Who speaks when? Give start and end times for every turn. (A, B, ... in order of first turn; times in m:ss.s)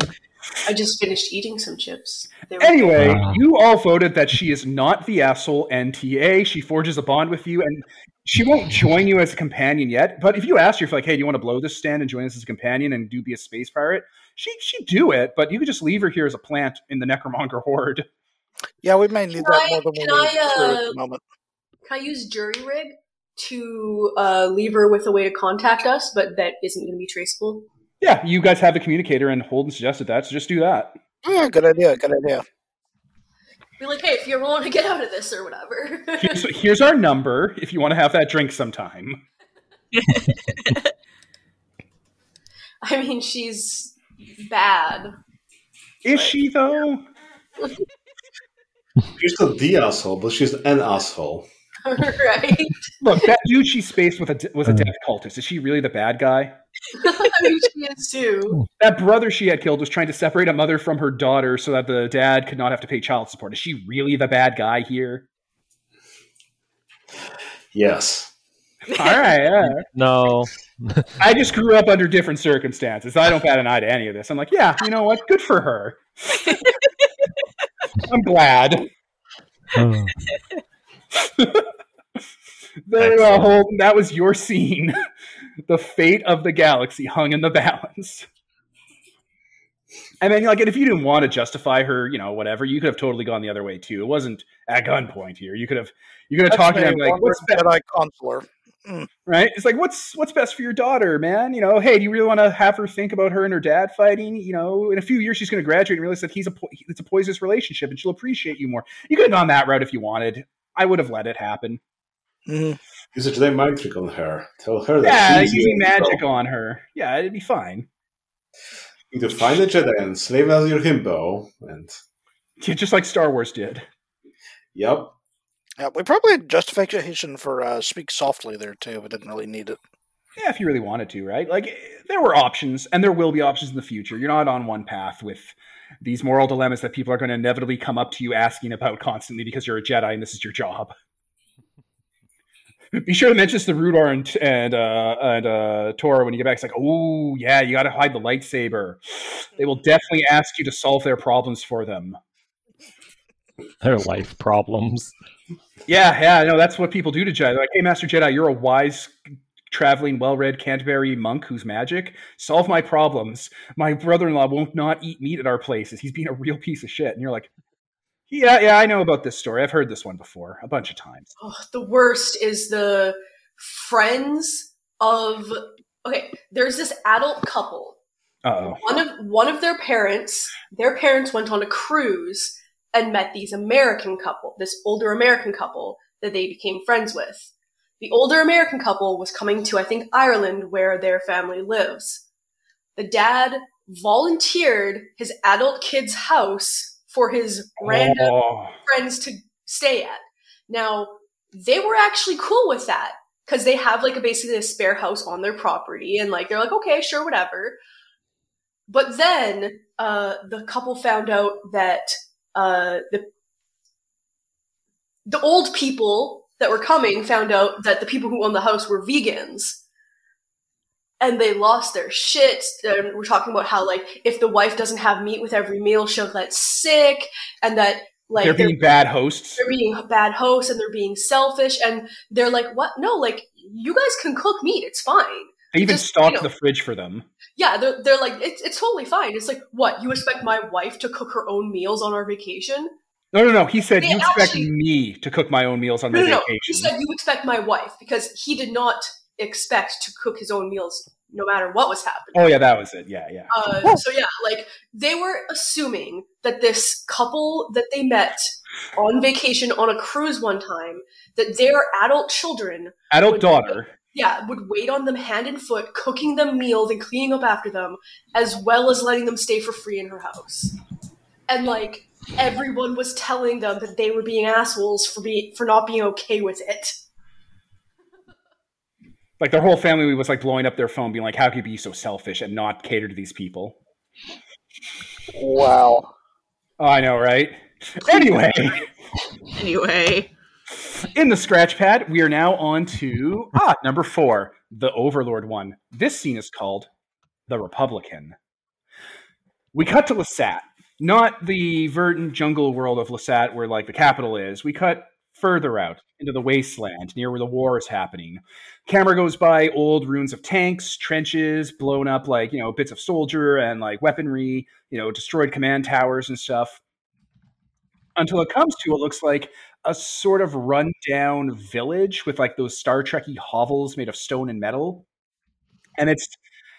0:00.6-0:03.0 A
0:02.6-0:18.1 B
0:03.0-0:03.4 C
0:18.8-0:21.2 D
0:19.4-0:21.0 A
0:21.9-0:27.7 A
0:28.0-0:31.0 B
0:31.2-0:32.4 D
0:33.8-0:36.4 A
0:36.2-0:39.2 B
0:39.9-0:40.8 E
0:42.8-0:45.1 A
0:46.0-0:47.0 B
0:49.1-0:51.5 F
0:51.8-0:53.3 A
0:53.0-0:56.6 B
0:56.9-0:58.7 A
0:58.8-1:05.3 B
1:07.7-1:08.3 F
1:08.9-1:09.9 B
1:09.9-1:11.1 C
1:11.2-1:16.7 B
1:18.0-1:18.9 B
1:19.7-1:20.2 C
1:21.1-1:21.7 B
1:22.9-1:25.0 B
1:23.0-1:23.6 C
1:25.7-1:28.3 B
1:30.2-1:37.6 B
1:36.5-1:39.1 D
1:39.3-1:51.8 B
1:52.5-1:52.8 D
1:53.1-1:56.2 F
1:55.0-1:57.9 B
1:59.1-2:02.0 F
2:02.6-2:03.9 B
2:04.8-2:05.1 F
2:05.8-2:09.8 D
2:10.4-2:20.9 B
2:23.0-2:32.2 B
2:33.8-2:35.1 C
2:35.9-2:39.1 B
2:39.7-2:47.5 B
2:48.3-2:51.3 B
2:51.4-2:58.0 A
2:58.4-2:58.8 B
2:58.7-3:12.2 A
3:13.0-3:27.8 A
3:17.8-3:18.8 B
3:28.9-3:33.3 A
3:35.3-3:39.8 A
3:41.2-3:48.9 A
3:48.4-3:49.6 B
3:49.6-3:56.5 A
3:55.7-3:57.3 B
3:57.6-4:02.9 A
4:03.3-4:06.9 B
4:04.0-4:04.7 A
4:06.1-4:12.5 A
4:12.3-4:14.0 B
4:13.5-4:30.7 A
4:23.1-4:23.9 B
4:31.5-4:37.0 A
4:39.4-4:43.8 B
4:45.3-4:46.1 D
4:46.8-4:48.9 B
4:48.1-4:48.8 E
4:49.5-4:50.3 E
4:50.8-4:56.9 B
4:57.5-4:58.4 B
4:59.7-5:16.8 B
5:18.2-5:25.1 B
5:26.0-5:26.4 B